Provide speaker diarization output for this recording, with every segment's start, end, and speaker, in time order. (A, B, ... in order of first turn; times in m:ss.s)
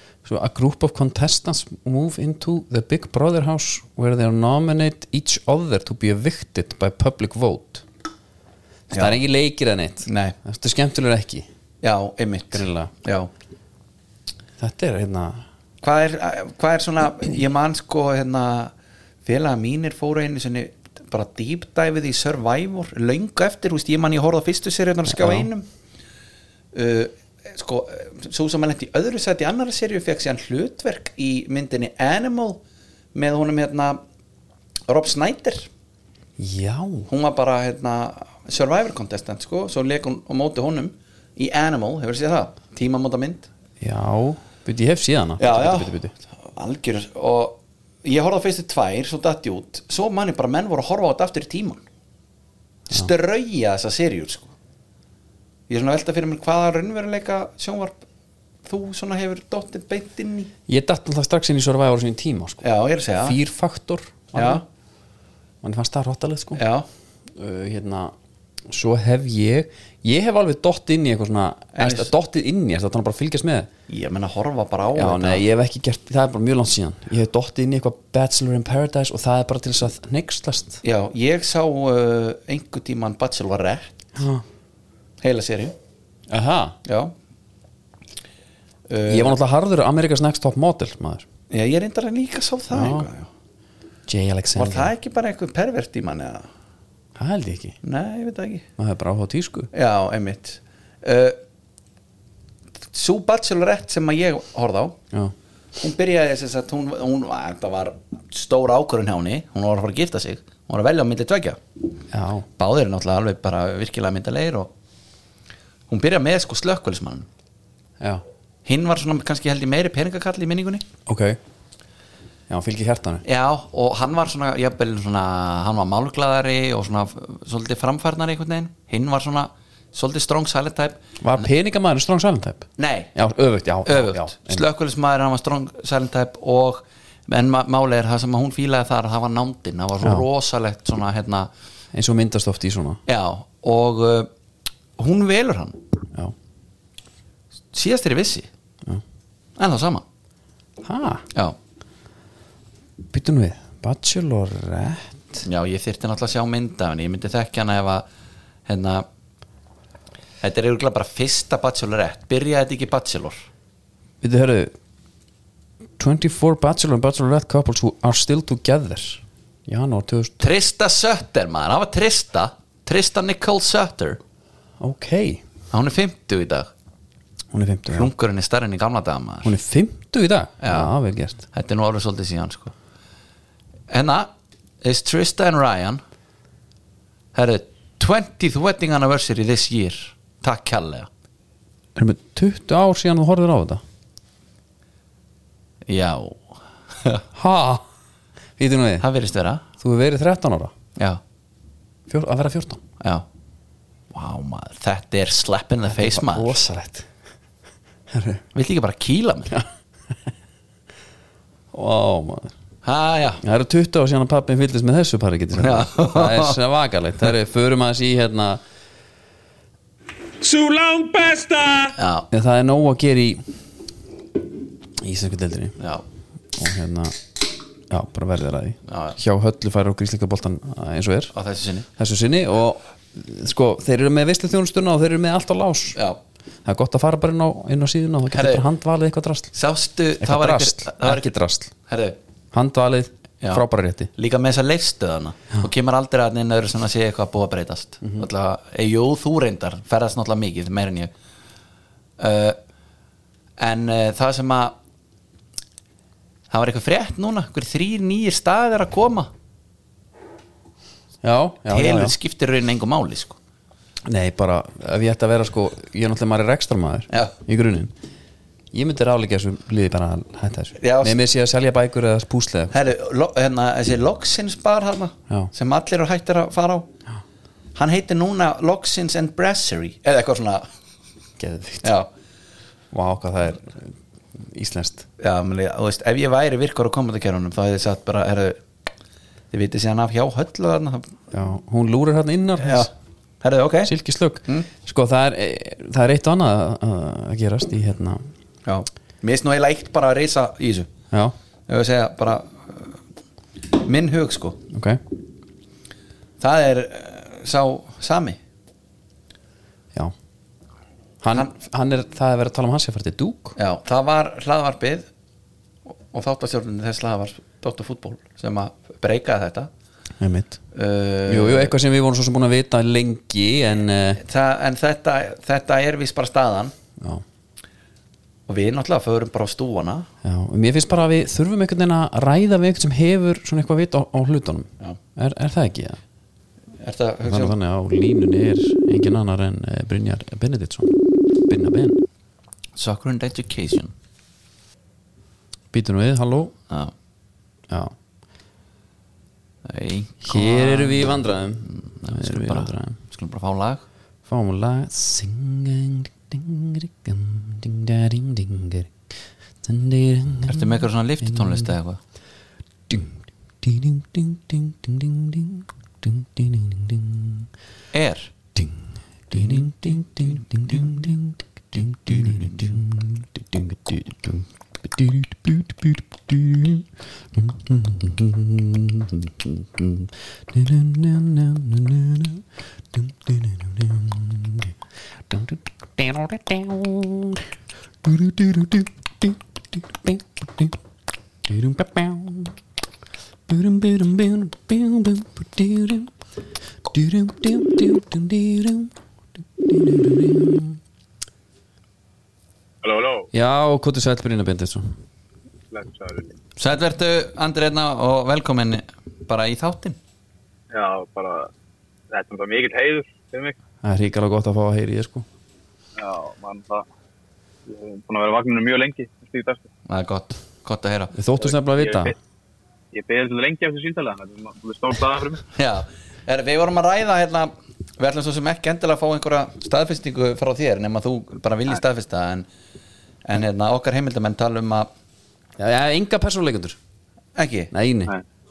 0:00.2-0:07.8 A
0:08.9-0:09.2 B
0:08.9-0:11.4 A
0:10.0-0:10.3 B
0:11.8-0:13.3 B
0:12.5-0:12.9 A
0:14.6-0:15.4 A
0:15.8-0:18.7 B
0:19.2-0:25.7 B
0:25.1-0:25.5 A
0:26.7-0:32.6 B
0:33.1-0:34.0 B
0:34.9-0:35.7 B
0:36.4-0:37.1 A
0:37.1-0:43.5 B
0:43.8-0:46.1 A
0:45.4-0:51.8 B
0:52.9-0:54.5 B
0:55.7-0:58.0 B
0:58.6-1:00.5 B
1:00.7-1:04.6 A
1:02.6-1:03.4 B
1:04.3-1:04.6 B
1:05.6-1:06.6 A
1:06.6-1:06.8 B
1:07.3-1:08.1 A
1:08.7-1:13.7 A
1:11.7-1:12.1 B
1:13.9-1:15.4 B
1:14.9-1:20.8 A
1:20.8-1:24.0 B
1:24.2-1:24.4 A
1:25.2-1:25.7 B
1:26.3-1:26.8 A
1:26.8-1:27.1 B
1:28.9-1:29.4 B
1:29.1-1:31.2 A
1:31.5-1:33.3 B
1:32.7-1:33.1 A
1:34.1-1:34.9 A
1:34.5-1:36.5 B
1:37.2-1:37.8 A
1:37.8-1:38.6 B
1:38.8-1:39.7 A
1:39.7-1:41.4 B
1:42.9-1:45.0 B
1:45.8-1:51.6 B
1:52.1-1:52.4 A
1:52.6-1:54.7 B
1:55.9-1:57.3 B
1:58.6-2:00.8 B
2:01.0-2:01.4 A
2:02.5-2:03.2 A
2:03.2-2:11.4 B
2:11.2-2:14.6 A
2:12.8-2:13.1 B
2:13.8-2:21.5 B
2:21.9-2:23.0 A
2:23.1-2:24.3 B
2:25.0-2:25.8 B
2:27.7-2:28.5 B
2:29.6-2:30.0 B
2:30.8-2:31.2 A
2:33.1-2:35.4 A
2:35.4-2:38.0 B
2:38.7-2:39.0 B
2:40.4-2:43.5 B
2:44.2-2:44.7 A
2:46.0-2:50.4 A
2:50.4-2:54.2 B
2:54.8-2:55.4 A
2:55.7-2:56.7 B
2:57.5-2:58.1 A
2:57.9-2:59.5 B
2:59.4-3:01.4 A
3:00.6-3:00.9 B
3:01.5-3:02.7 B
3:03.9-3:04.3 B
3:04.8-3:06.0 B
3:07.3-3:11.1 B
3:12.0-3:13.8 A
3:15.9-3:17.2 B
3:17.3-3:17.8 A
3:18.6-3:19.0 A
3:19.0-3:19.6 B
3:19.8-3:20.7 A
3:22.1-3:22.8 A
3:23.0-3:23.2 B
3:24.1-3:26.6 B
3:25.9-3:27.1 A
3:28.1-3:28.4 A
3:28.5-3:29.5 B
3:31.7-3:32.5 A
3:32.8-3:33.4 B
3:33.4-3:38.6 A
3:35.6-3:36.6 B
3:41.9-3:42.3 B
3:42.3-3:43.4 A
3:45.0-3:45.8 A
3:45.8-3:46.0 B
3:46.6-3:47.2 A
3:47.9-3:51.3 A
3:48.9-3:49.2 B
3:51.3-3:51.9 B
3:52.0-3:56.0 A
3:56.6-3:59.5 A
3:58.3-3:58.6 B
3:59.5-4:01.3 B
4:00.2-4:01.7 A
4:01.9-4:02.2 B
4:02.5-4:04.1 A
4:04.1-4:11.1 B
4:12.2-4:12.6 B
4:13.6-4:14.7 B
4:16.5-4:19.3 B
4:21.2-4:22.1 A
4:21.7-4:23.4 B
4:24.0-4:27.9 A
4:27.1-4:27.3 B
4:28.7-4:32.7 A
4:30.8-4:31.2 B
4:32.7-4:36.9 B
4:37.8-4:40.6 B
4:41.4-4:41.9 A
4:41.8-4:42.1 B
4:42.9-4:45.0 A
4:45.2-4:48.6 B
4:49.5-4:51.1 B
4:51.3-4:52.9 A
4:52.6-4:52.9 B
4:53.4-4:53.9 B
4:53.8-4:58.2 A
4:58.6-5:00.9 B
5:01.7-5:03.0 B
5:03.7-5:04.6 B
5:04.7-5:05.0 A
5:06.4-5:08.4 B
5:11.2-5:13.5 A
5:13.6-5:15.1 B
5:15.9-5:19.7 B
5:20.2-5:20.6 A
5:20.7-5:21.7 B
5:21.3-5:24.2 A
5:24.2-5:26.7 B
5:27.0-5:27.2 A
5:28.5-5:30.1 B
5:30.2-5:36.0 A
5:36.8-5:37.5 B
5:37.2-5:40.9 A
5:41.4-5:42.0 A
5:42.8-5:43.9 B
5:45.7-5:46.5 A
5:47.7-5:47.9 A
5:49.6-5:53.8 B
5:50.3-5:53.0 A
5:54.2-5:58.9 A
5:59.6-6:01.7 A
6:00.4-6:02.0 B
6:02.9-6:07.5 A
6:07.9-6:08.3 B
6:09.3-6:24.7 A
6:09.4-6:09.6 B
6:10.4-6:10.8 B
6:12.1-6:12.6 B
6:25.3-6:27.5 A
6:28.0-6:30.8 A
6:31.4-6:32.5 A
6:33.5-6:36.1 A
6:36.8-6:38.9 A
6:39.6-6:40.8 A
6:42.8-6:43.3 C
6:43.3-6:44.8 A
6:45.7-6:46.4 C
6:46.6-6:50.0 B
6:50.7-6:51.5 C
6:52.1-6:53.6 C
6:53.8-6:55.2 A
6:56.0-6:56.8 C
6:57.7-6:59.7 C
6:59.9-7:01.1 B
7:01.1-7:02.1 A
7:01.4-7:02.2 C
7:02.9-7:05.4 C
7:05.5-7:12.5 B
7:13.2-7:14.9 B
7:15.6-7:16.8 A
7:17.4-7:17.7 B
7:17.7-7:18.1 A